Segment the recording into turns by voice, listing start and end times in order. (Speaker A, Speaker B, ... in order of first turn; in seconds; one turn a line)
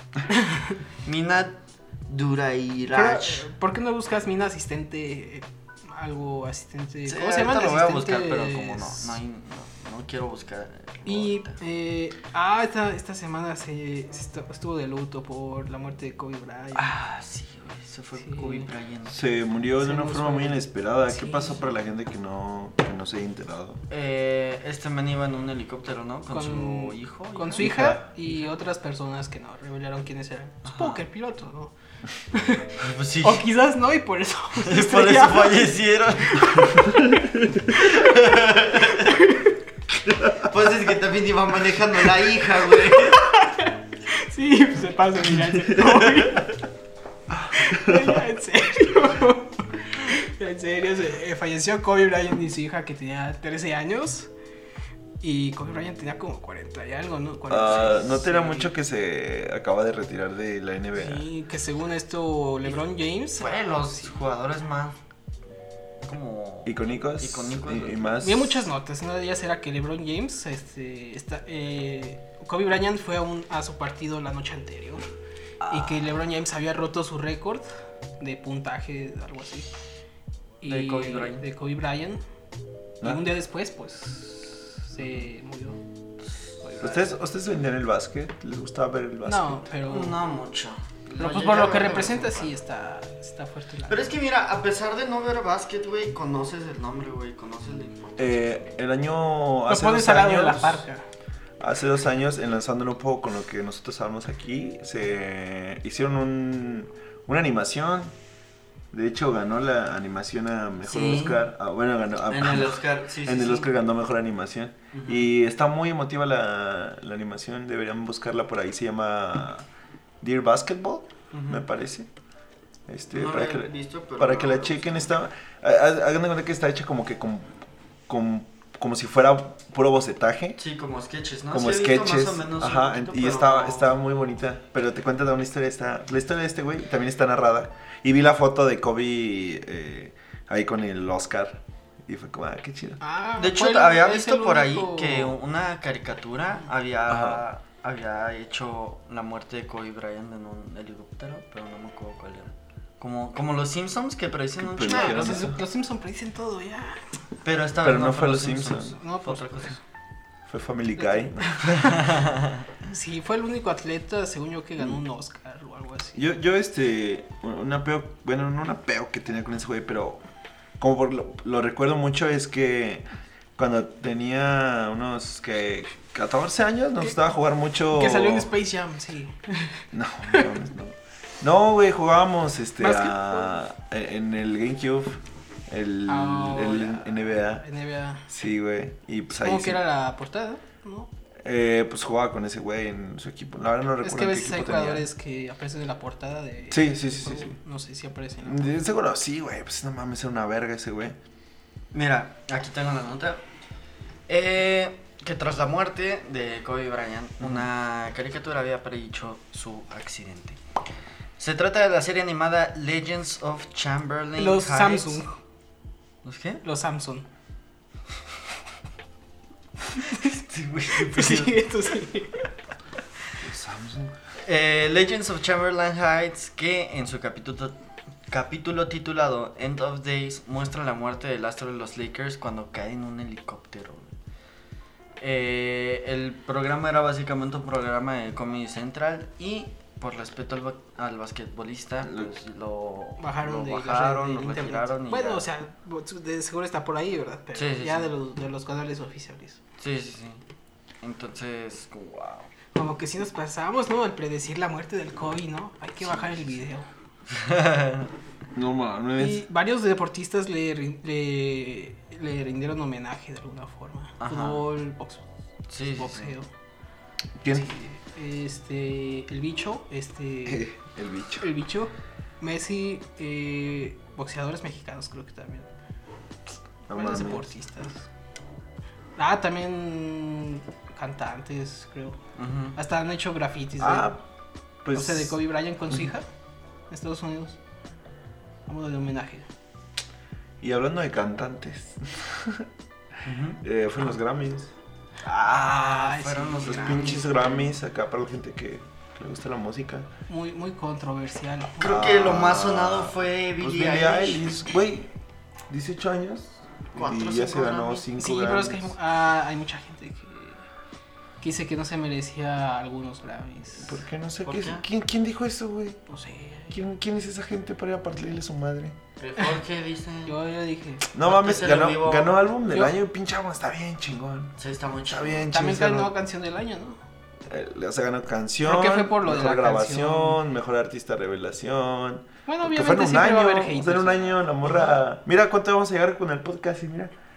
Speaker A: 0.3-0.8
Speaker B: 1.0-3.5
Speaker A: 2.9-9.2
Speaker B: 7.1-11.6
Speaker A: 11.1-16.9
Speaker B: 16.7-19.2
Speaker A: 18.2-18.7
Speaker C: 19.1-23.8
Speaker A: 19.8-21.6
Speaker B: 23.9-27.7
Speaker A: 26.3-31.7
Speaker C: 27.6-28.0
Speaker B: 30.6-31.0
Speaker A: 32.3-39.6
Speaker B: 32.8-33.5
Speaker B: 34.6-37.0
Speaker B: 37.8-39.2
Speaker C: 40.0-40.5
Speaker B: 40.3-43.2
Speaker A: 42.9-46.5
Speaker A: 47.5-54.3
Speaker C: 47.5-48.2
Speaker A: 55.2-58.7
Speaker C: 57.5-61.2
Speaker A: 60.9-64.1
Speaker B: 63.3-65.0
Speaker B: 66.0-68.1
Speaker C: 66.7-68.7
Speaker A: 68.2-75.0
Speaker A: 75.7-77.7
Speaker A: 78.2-79.7
Speaker A: 80.6-82.2
Speaker B: 80.6-81.4
Speaker A: 83.0-85.8
Speaker B: 86.3-87.1
Speaker C: 86.8-89.6
Speaker A: 89.2-90.2
Speaker B: 89.9-92.5
Speaker A: 91.2-94.1
Speaker B: 93.9-98.5
Speaker C: 98.2-100.8
Speaker A: 99.7-101.0
Speaker C: 101.6-108.1
Speaker C: 108.9-119.7
Speaker B: 110.8-111.4
Speaker B: 112.3-113.7
Speaker B: 114.9-115.3
Speaker C: 120.2-122.1
Speaker B: 121.3-121.6
Speaker C: 122.9-127.5
Speaker B: 123.1-125.1
Speaker C: 128.1-130.6
Speaker B: 130.6-133.9
Speaker C: 131.5-143.0
Speaker A: 143.0-145.4
Speaker B: 143.4-155.5
Speaker C: 147.1-147.4
Speaker C: 154.6-155.6
Speaker A: 154.8-157.0
Speaker B: 157.4-159.8
Speaker C: 157.8-158.9
Speaker A: 158.9-159.8
Speaker C: 160.5-162.0
Speaker A: 161.0-162.0
Speaker B: 161.8-162.6
Speaker A: 162.8-166.2
Speaker C: 166.1-170.2
Speaker C: 170.8-173.0
Speaker C: 173.6-178.5
Speaker A: 177.9-180.5
Speaker C: 179.9-187.6
Speaker A: 182.8-183.5
Speaker A: 186.1-188.3
Speaker C: 188.3-189.8
Speaker A: 189.3-191.1
Speaker C: 191.4-195.1
Speaker A: 194.0-198.7
Speaker C: 196.7-197.6
Speaker C: 198.4-201.2
Speaker B: 201.9-203.4
Speaker B: 204.3-210.6
Speaker B: 211.4-215.2
Speaker A: 214.4-215.4
Speaker B: 216.2-216.6
Speaker A: 216.6-217.2
Speaker B: 220.1-221.7
Speaker A: 220.9-222.5
Speaker C: 223.4-224.1
Speaker B: 224.4-227.8
Speaker B: 228.3-234.1
Speaker B: 235.2-245.4
Speaker C: 242.0-242.3
Speaker A: 243.2-249.6
Speaker B: 247.5-248.1
Speaker B: 249.8-250.4
Speaker B: 251.0-252.5
Speaker A: 252.7-256.9
Speaker B: 256.0-256.4
Speaker B: 257.3-258.1
Speaker C: 258.5-259.4
Speaker A: 259.2-265.2
Speaker B: 264.2-264.6
Speaker B: 265.7-266.3
Speaker A: 265.9-266.5
Speaker C: 267.4-267.7
Speaker A: 267.5-270.7
Speaker C: 270.4-271.5
Speaker A: 271.4-275.7
Speaker C: 276.9-277.5
Speaker A: 276.9-278.1
Speaker A: 279.2-282.2
Speaker B: 282.4-282.8
Speaker A: 282.8-284.1
Speaker C: 283.8-284.2
Speaker C: 284.8-285.4
Speaker A: 284.9-286.2
Speaker A: 286.9-287.6
Speaker A: 288.7-289.4
Speaker C: 290.6-292.7
Speaker B: 293.2-293.6
Speaker C: 293.6-294.7
Speaker B: 295.2-297.7
Speaker A: 295.4-297.4
Speaker C: 296.6-300.1
Speaker A: 300.3-301.9
Speaker B: 301.8-304.4
Speaker C: 301.8-305.1
Speaker C: 305.7-308.9
Speaker B: 306.9-308.1
Speaker A: 308.2-310.6
Speaker A: 311.4-314.0
Speaker C: 313.8-316.0
Speaker B: 314.4-314.8
Speaker A: 316.1-316.8
Speaker C: 316.7-319.0
Speaker B: 319.2-320.4
Speaker A: 320.2-321.1
Speaker C: 321.1-324.6
Speaker B: 321.2-322.4
Speaker B: 324.6-325.5
Speaker C: 325.1-326.1
Speaker A: 325.5-327.0
Speaker C: 327.4-337.1
Speaker A: 328.6-330.4
Speaker A: 332.4-334.4